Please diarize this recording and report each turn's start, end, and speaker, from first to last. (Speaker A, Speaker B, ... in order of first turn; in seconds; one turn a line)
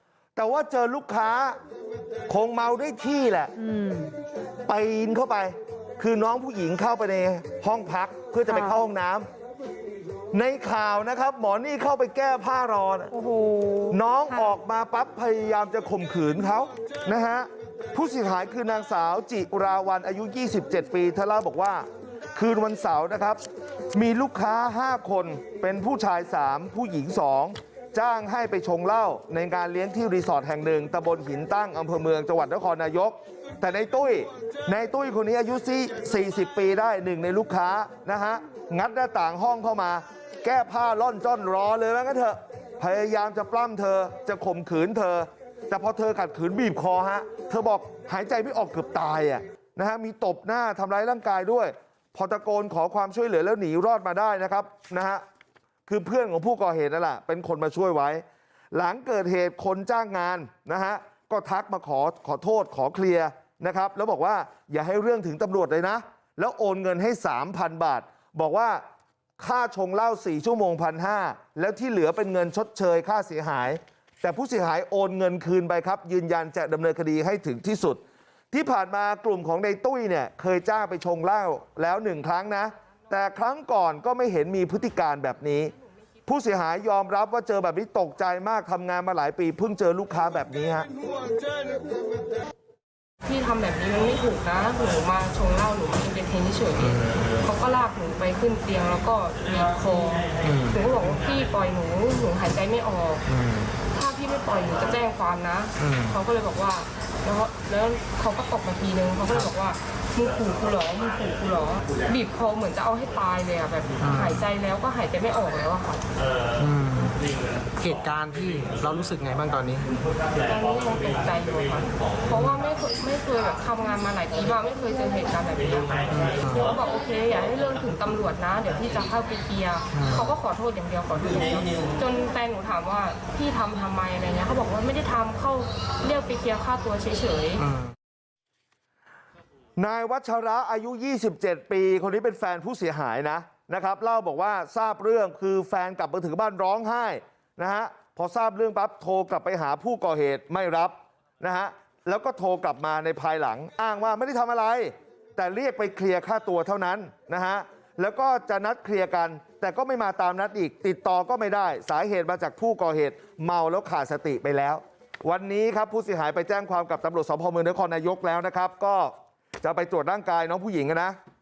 Speaker A: 0.4-1.6
Speaker A: 2.3-3.5
Speaker B: 3.6-4.1
Speaker A: 4.7-9.3
Speaker B: 8.5-8.8
Speaker A: 10.3-13.1
Speaker B: 13.1-14.5
Speaker A: 13.9-23.4
Speaker A: 23.9-55.2
Speaker A: 55.9-68.8
Speaker A: 69.4-78.0
Speaker A: 78.5-85.7
Speaker A: 86.2-90.9
Speaker C: 93.2-103.2
Speaker D: 100.4-100.8
Speaker D: 103.3-103.7
Speaker C: 103.8-116.0
Speaker D: 105.8-106.1
Speaker D: 114.0-114.4
Speaker D: 116.6-117.2
Speaker D: 117.8-119.9
Speaker C: 120.3-137.7
Speaker D: 126.1-126.8
Speaker D: 129.9-130.2
Speaker A: 139.8-171.2